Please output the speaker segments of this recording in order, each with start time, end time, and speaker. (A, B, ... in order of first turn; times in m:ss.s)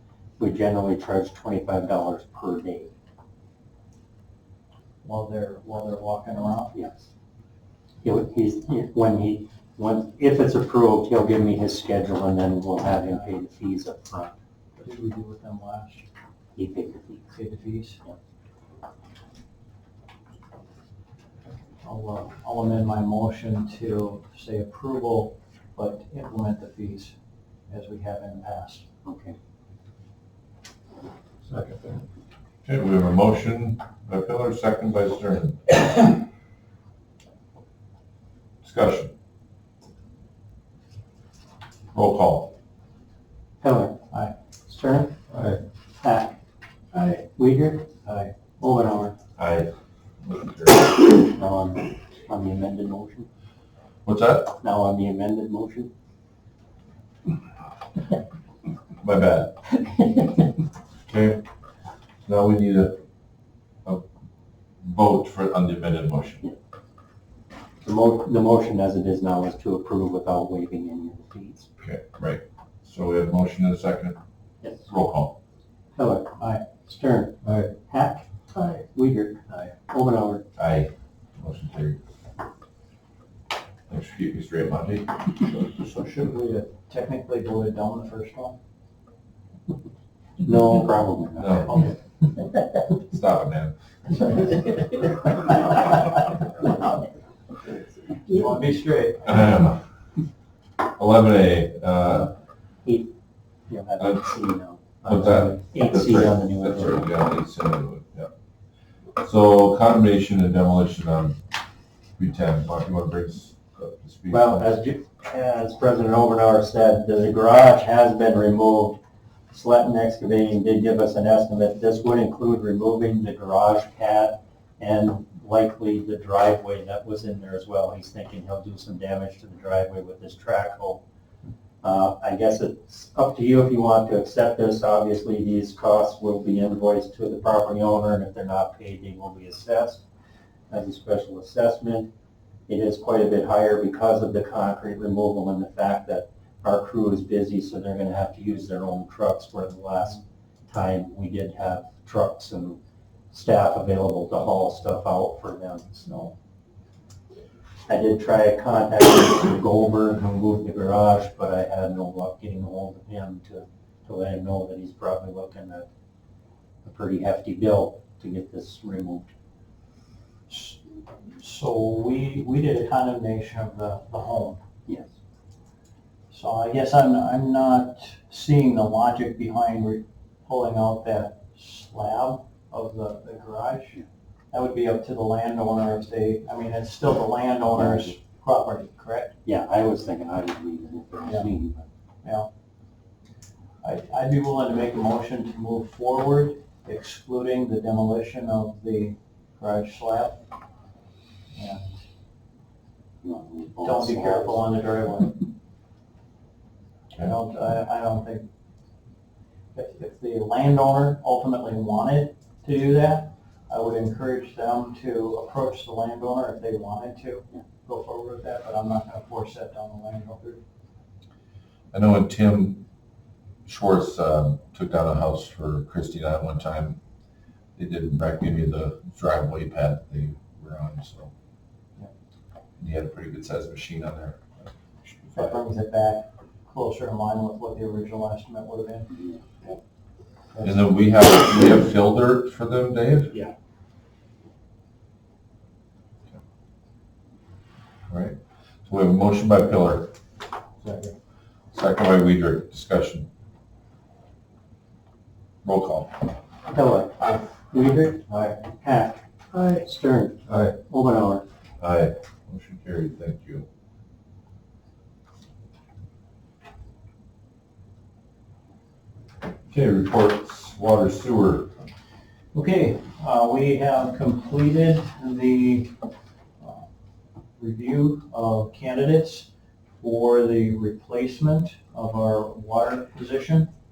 0:00.4-0:02.9 A
0:05.0-0:06.7 B
0:06.7-0:07.0 A
0:08.0-0:14.3 A
0:14.8-0:16.0 B
0:16.6-0:17.3 A
0:17.4-0:18.0 B
0:21.8-0:27.1 B
0:27.7-0:28.8 B
0:29.0-0:29.4 A
0:32.6-0:35.8 C
0:38.6-0:39.1 C
0:41.9-0:42.6 C
0:43.6-0:44.1 A
0:44.7-0:45.2 A
0:46.0-0:46.3 A
0:46.9-0:47.9 A
0:48.0-0:48.3 B
0:48.6-0:49.2 A
0:49.4-0:51.0 C
0:51.3-0:53.3 A
0:54.0-0:54.6 C
0:54.6-0:55.9 A
0:59.0-0:59.6 C
1:01.1-1:01.4 C
1:02.3-1:03.0 C
1:04.8-1:06.4 C
1:07.8-1:11.7 A
1:11.8-1:14.2 C
1:14.6-1:14.9 A
1:14.9-1:15.4 C
1:16.0-1:20.4 A
1:16.4-1:16.6 B
1:17.4-1:17.7 B
1:20.6-1:22.0 C
1:23.9-1:25.3 C
1:25.7-1:28.6 B
1:30.4-1:31.8 A
1:31.4-1:31.8 C
1:32.9-1:33.7 C
1:38.3-1:39.5 B
1:39.2-1:39.8 C
1:40.8-1:42.3 C
1:42.8-1:43.1 A
1:43.7-1:47.0 A
1:45.0-1:48.3 C
1:45.9-1:46.6 B
1:49.2-1:51.4 C
1:52.2-1:54.7 C
1:54.3-1:59.0 A
1:59.5-2:11.0 A
2:11.8-2:20.0 A
2:20.7-2:22.1 A
2:22.7-2:32.8 A
2:33.3-2:36.3 A
2:37.9-2:45.9 A
2:46.8-2:49.3 A
2:50.5-2:54.6 B
2:56.3-3:04.0 B
3:04.5-3:09.3 B
3:07.7-3:08.1 A
3:09.4-3:11.9 A
3:13.8-3:20.4 B
3:21.6-3:22.0 B
3:23.2-3:24.6 A
3:23.8-3:25.3 B
3:27.2-3:28.5 B
3:29.8-3:40.6 B
3:41.9-3:42.8 C
3:43.7-3:47.0 C
3:47.8-3:51.3 C
3:52.8-3:55.5 C
3:55.4-3:59.1 B
3:59.3-3:59.8 A
4:00.5-4:00.8 B
4:00.6-4:03.4 C
4:08.1-4:10.2 C
4:10.8-4:11.1 B
4:11.7-4:13.3 C
4:15.6-4:16.1 C
4:16.7-4:21.4 A
4:20.5-4:20.7 C
4:21.8-4:23.6 C
4:29.7-4:31.9 C
4:32.5-4:35.9 B
4:36.6-4:36.8 B
4:37.6-4:39.5 B
4:40.0-4:43.7 B